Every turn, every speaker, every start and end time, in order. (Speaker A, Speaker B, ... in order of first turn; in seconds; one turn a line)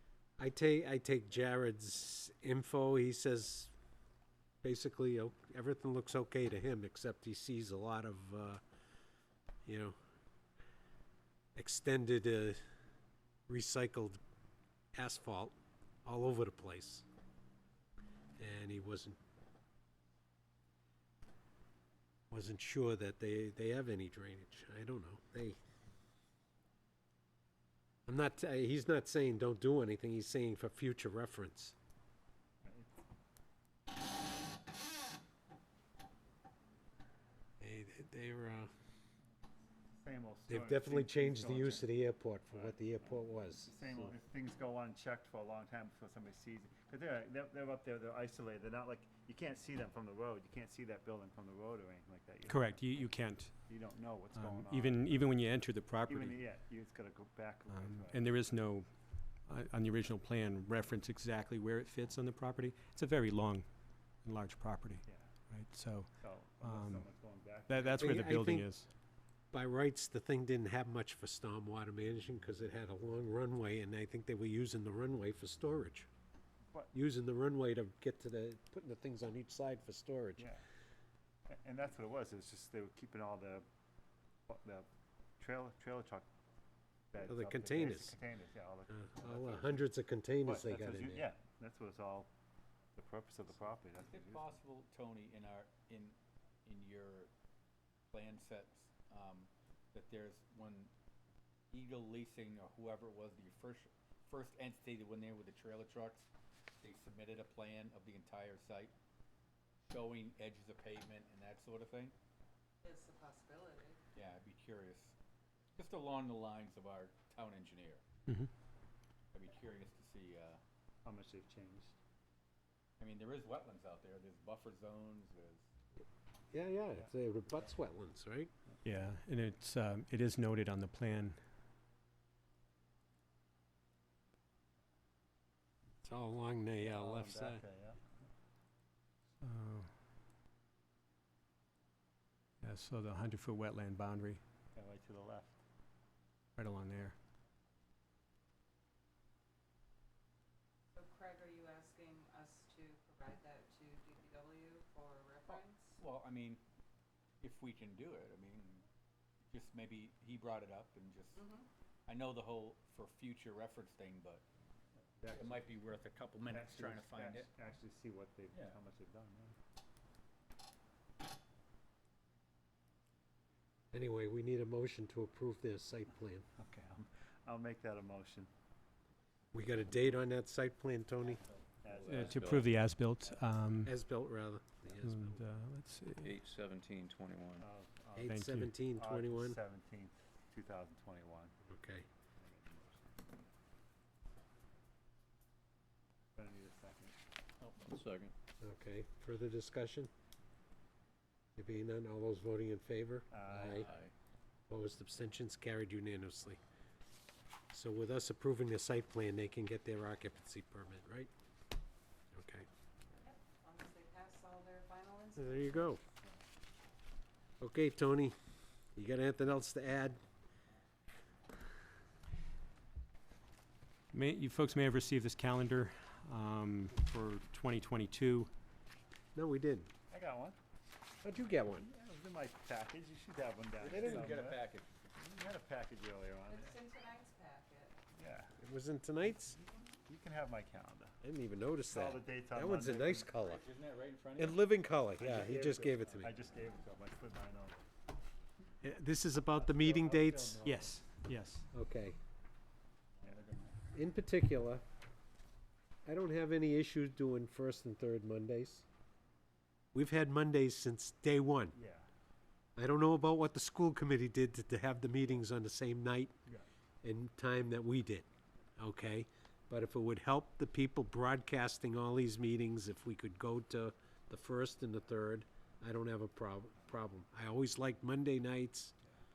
Speaker A: 0.4-3.7
Speaker A: 4.6-8.6
Speaker A: 9.7-10.0
Speaker A: 11.6-12.6
Speaker A: 13.5-14.2
Speaker A: 14.9-17.1
Speaker A: 18.4-19.2
Speaker A: 22.3-25.6
Speaker A: 28.1-31.8
Speaker B: 32.6-33.0
Speaker A: 37.6-38.7
Speaker B: 40.0-41.9
Speaker A: 40.5-44.1
Speaker B: 42.5-55.4
Speaker C: 52.5-53.6
Speaker C: 54.3-56.4
Speaker B: 56.0-58.3
Speaker C: 57.7-58.9
Speaker C: 59.5-63.7
Speaker C: 64.2-67.1
Speaker B: 65.1-65.3
Speaker B: 66.2-68.4
Speaker C: 67.7-68.9
Speaker A: 68.0-68.7
Speaker A: 69.5-76.1
Speaker A: 76.9-80.5
Speaker B: 80.4-80.6
Speaker B: 81.5-83.7
Speaker B: 84.5-84.9
Speaker B: 85.4-86.3
Speaker B: 87.1-89.9
Speaker A: 87.3-88.2
Speaker A: 88.9-91.3
Speaker B: 90.4-92.3
Speaker B: 93.0-94.6
Speaker D: 93.9-97.3
Speaker D: 98.1-100.9
Speaker D: 101.7-106.3
Speaker D: 106.8-108.9
Speaker D: 109.8-112.2
Speaker E: 112.8-114.0
Speaker D: 114.2-115.2
Speaker D: 115.8-118.0
Speaker D: 119.3-120.6
Speaker B: 121.0-122.0
Speaker D: 123.0-125.7
Speaker A: 126.5-128.5
Speaker B: 126.9-127.7
Speaker C: 128.8-131.4
Speaker A: 136.0-137.6
Speaker B: 136.8-138.0
Speaker C: 139.4-139.9
Speaker C: 142.6-144.4
Speaker B: 144.8-145.6
Speaker C: 146.6-147.2
Speaker E: 150.9-156.0
Speaker D: 155.5-156.6
Speaker D: 157.4-158.8
Speaker D: 159.5-161.4
Speaker E: 161.4-161.7
Speaker D: 162.1-164.4
Speaker B: 165.2-165.7
Speaker D: 165.4-167.5
Speaker B: 166.5-169.6
Speaker D: 168.5-168.8
Speaker A: 173.9-176.5
Speaker B: 176.6-178.5
Speaker A: 179.5-181.4
Speaker B: 181.8-182.7
Speaker F: 181.9-182.8
Speaker C: 182.1-183.9
Speaker A: 183.8-185.3
Speaker C: 185.0-186.3
Speaker F: 186.2-187.7
Speaker B: 187.6-191.6
Speaker A: 188.2-189.6
Speaker C: 188.2-188.7
Speaker A: 191.7-192.1
Speaker B: 192.4-193.4
Speaker B: 196.4-197.2
Speaker F: 197.8-198.3
Speaker A: 198.6-200.1
Speaker A: 201.6-203.9
Speaker B: 203.3-203.8
Speaker D: 203.6-204.1
Speaker A: 204.7-206.6
Speaker A: 207.7-211.3
Speaker A: 212.3-212.7
Speaker E: 213.2-216.0
Speaker A: 215.4-216.0
Speaker A: 217.6-218.4
Speaker A: 218.9-220.2
Speaker C: 224.1-228.5
Speaker A: 229.3-229.9
Speaker B: 230.1-230.6
Speaker A: 231.2-231.9
Speaker B: 231.8-234.6
Speaker D: 233.8-234.9
Speaker B: 235.1-236.8
Speaker E: 236.5-238.0
Speaker B: 238.1-238.5
Speaker A: 238.6-239.6
Speaker B: 239.8-241.2
Speaker A: 241.2-243.7
Speaker B: 241.9-243.3
Speaker D: 243.4-244.6
Speaker A: 244.4-246.4
Speaker B: 245.2-247.8
Speaker A: 248.8-250.6
Speaker B: 249.5-250.9
Speaker C: 250.6-251.7
Speaker A: 251.7-252.2
Speaker D: 253.2-253.8
Speaker A: 253.9-254.8
Speaker A: 256.1-258.9
Speaker A: 259.9-261.8
Speaker B: 261.7-262.1
Speaker A: 262.8-266.4
Speaker A: 267.0-268.3
Speaker A: 268.8-279.0